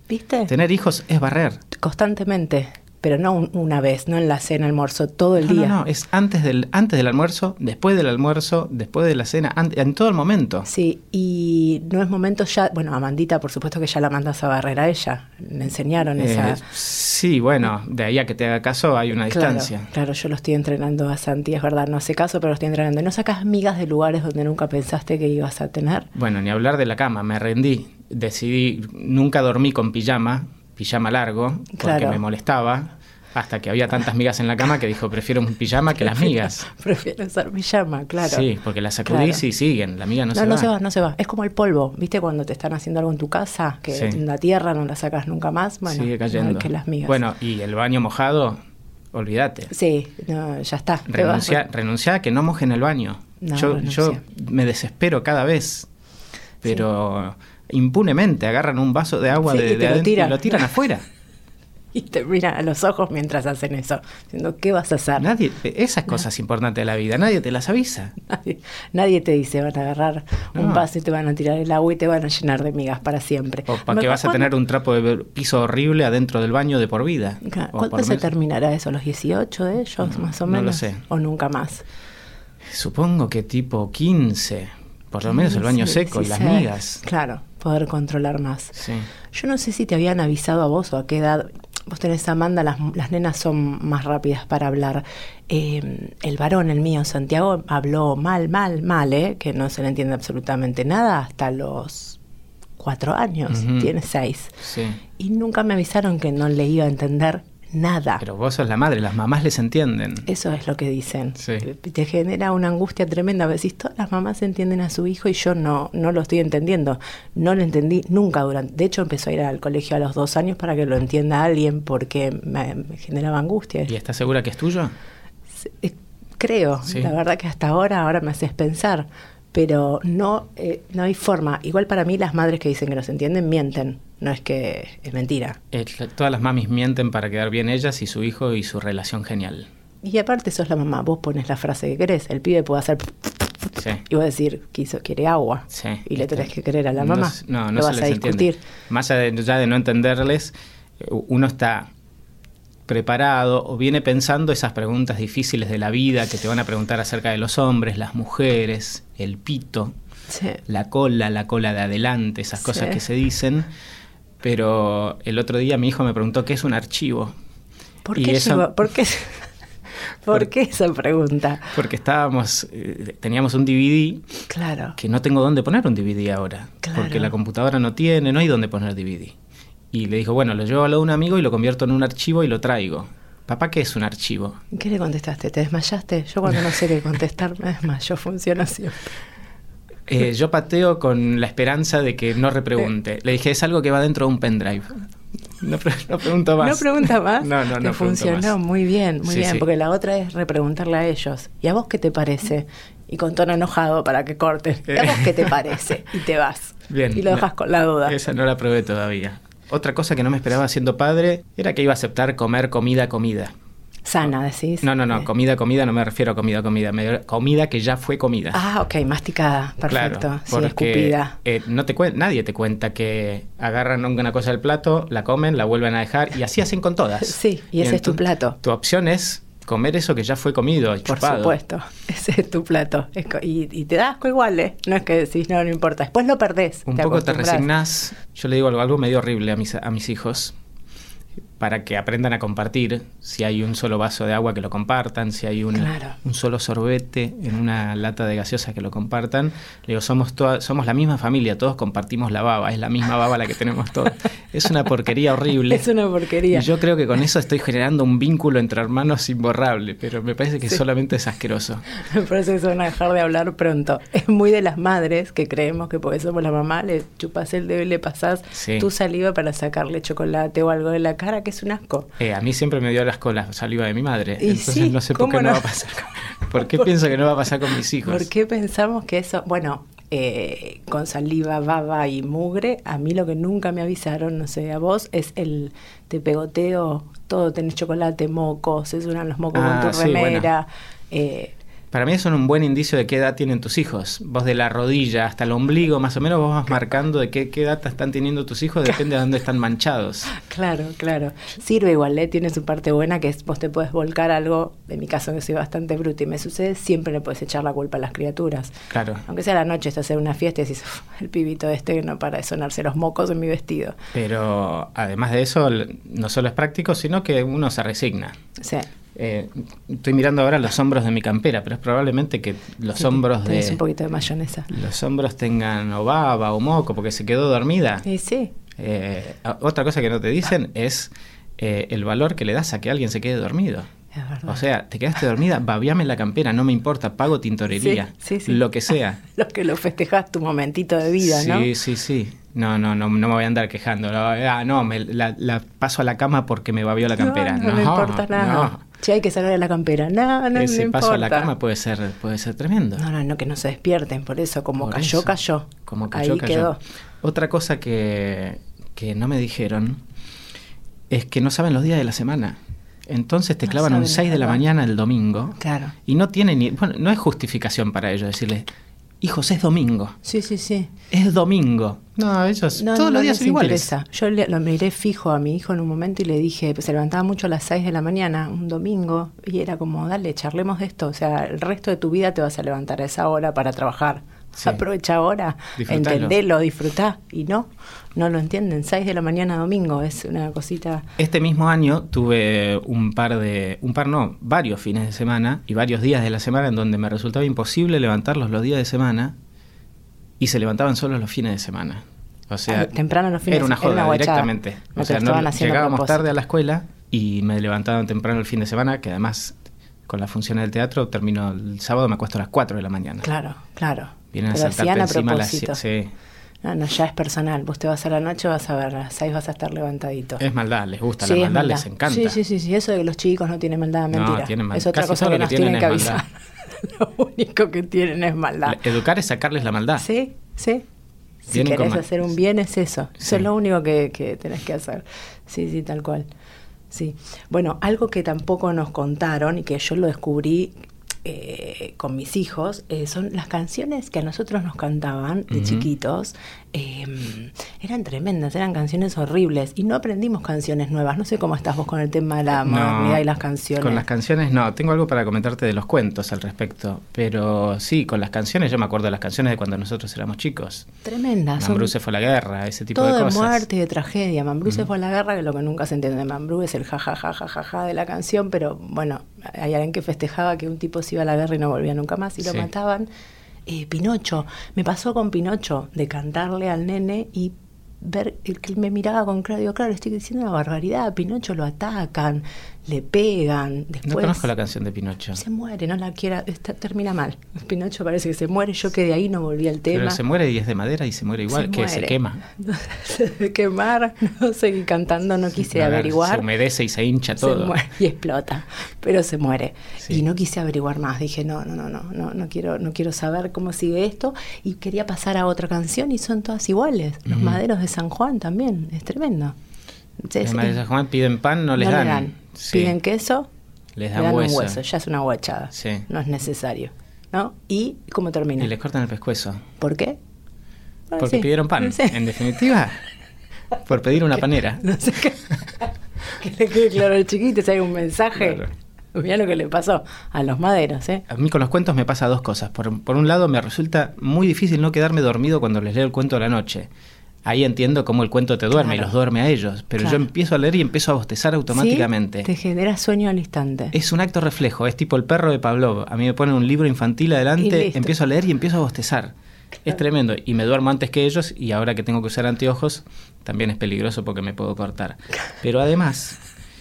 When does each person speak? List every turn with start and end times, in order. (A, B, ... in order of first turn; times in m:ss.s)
0:00.1-0:00.5 A
0:00.5-0:01.6 B
0:01.7-0:05.8 A
0:05.4-0:10.7 B
0:10.7-0:16.6 A
0:16.2-0:19.9 B
0:19.3-0:26.1 A
0:26.1-0:36.7 B
0:31.8-0:32.2 A
0:36.0-0:38.5 A
0:38.2-0:40.7 B
0:39.0-0:39.4 A
0:40.3-0:47.2 A
0:43.9-0:44.2 B
0:45.9-0:48.6 B
0:49.1-0:49.7 B
0:49.7-0:51.6 A
0:51.1-0:55.9 B
0:53.4-0:54.2 A
0:56.6-1:01.0 B
0:59.4-1:00.7 A
1:01.9-1:05.3 A
1:05.2-1:08.1 B
1:08.2-1:14.5 A
1:10.5-1:10.8 B
1:13.7-1:18.3 B
1:17.4-1:21.8 A
1:20.0-1:21.0 B
1:22.7-1:27.0 B
1:25.2-1:42.2 A
1:28.8-1:29.1 B
1:42.8-1:44.6 A
1:43.5-1:43.9 B
1:44.6-1:45.0 B
1:45.2-1:48.2 A
1:48.2-1:50.3 B
1:50.3-2:03.9 A
1:51.4-1:51.6 B
2:03.9-2:04.9 B
2:05.6-2:15.6 A
2:15.7-2:19.7 B
2:20.0-2:28.6 A
2:23.8-2:24.0 B
2:25.7-2:31.9 B
2:32.9-2:39.9 B
2:40.3-2:40.6 A
2:40.7-2:43.7 B
2:42.6-2:43.0 A
2:44.4-2:47.3 B
2:48.0-2:49.5 A
2:48.2-2:48.7 B
2:50.2-2:51.8 A
2:51.7-2:54.3 B
2:54.5-2:55.0 A
2:55.0-2:59.3 B
2:56.8-2:57.3 A
2:59.9-3:04.6 B
3:04.7-3:09.1 A
3:10.1-3:15.0 B
3:15.6-3:18.5 B
3:16.6-3:28.2 A
3:19.2-3:19.6 B
3:24.9-3:25.5 B
3:26.9-3:27.5 B
3:28.0-3:33.5 B
3:34.0-3:35.3 A
3:34.8-3:38.6 B
3:38.5-3:41.4 A
3:39.9-3:51.6 B
3:47.2-3:48.6 A
3:51.0-3:57.7 A
3:56.9-4:00.5 B
4:01.6-4:15.8 B
4:05.7-4:06.2 A
4:15.7-4:16.7 A
4:16.5-4:21.9 B
4:21.9-4:32.1 A
4:28.5-4:28.9 B
4:32.2-4:38.3 B
4:34.4-4:37.0 A
4:38.0-4:51.5 A
4:49.5-4:50.5 B
4:51.9-5:00.4 B
5:00.3-5:08.7 A
5:08.9-5:09.2 B
5:09.2-5:14.0 A
5:14.1-5:18.4 B
5:18.6-5:18.9 A
5:19.1-5:23.8 B
5:23.0-5:24.7 A
5:24.7-5:28.0 B
5:28.0-5:28.5 A
5:28.8-5:33.9 B
5:34.1-5:34.6 A
5:34.4-5:39.2 B
5:37.7-5:41.7 A
5:41.2-5:48.8 B
5:47.1-5:51.5 A
5:50.5-5:53.0 B
5:53.0-5:56.8 A
5:54.8-5:55.3 B
5:55.8-6:00.0 B
6:01.1-6:08.6 B
6:03.6-6:04.6 A
6:05.6-6:05.9 A
6:09.2-6:10.2 B
6:10.2-6:10.9 A
6:11.1-6:13.9 B
6:12.7-6:31.0 A
6:25.8-6:26.4 B
6:31.2-6:39.3 B
6:40.4-6:42.9 B
6:42.7-6:46.3 A
6:43.5-6:49.5 B
6:50.1-6:53.2 B
6:53.2-6:55.8 A
6:54.3-6:56.1 B
6:56.6-7:00.4 A
7:00.4-7:02.4 B
7:01.2-7:08.8 A
7:04.1-7:06.2 B
7:08.6-7:10.0 B
7:10.0-7:10.8 A
7:11.5-7:16.2 A
7:11.5-7:12.0 B
7:16.9-7:34.0 A
7:25.5-7:25.9 B
7:32.6-7:33.2 B
7:33.8-7:40.8 B
7:41.0-7:41.9 A
7:41.6-7:43.6 B
7:42.9-7:53.1 A
7:52.4-7:52.7 B
7:53.7-8:04.5 A
8:04.0-8:05.4 B
8:05.3-8:10.2 A
8:09.9-8:12.4 B
8:11.5-8:16.4 A
8:15.6-8:17.7 B
8:17.4-8:29.5 A
8:27.2-8:27.6 B
8:30.2-8:30.8 A
8:30.4-8:33.0 B
8:31.8-8:33.5 A
8:34.0-8:34.8 B
8:34.1-8:38.7 A
8:35.7-8:36.0 B
8:38.6-8:39.6 B
8:39.8-8:40.2 A
8:41.1-8:42.3 A
8:41.2-8:43.0 B
8:43.8-8:44.8 B
8:44.8-8:51.2 A
8:48.4-8:48.6 B
8:51.3-8:56.9 B
8:57.4-9:02.5 B
8:58.7-8:59.1 A
9:00.0-9:00.2 A
9:01.7-9:03.9 A
9:03.9-9:09.3 B
9:07.6-9:08.1 A
9:09.8-9:16.4 B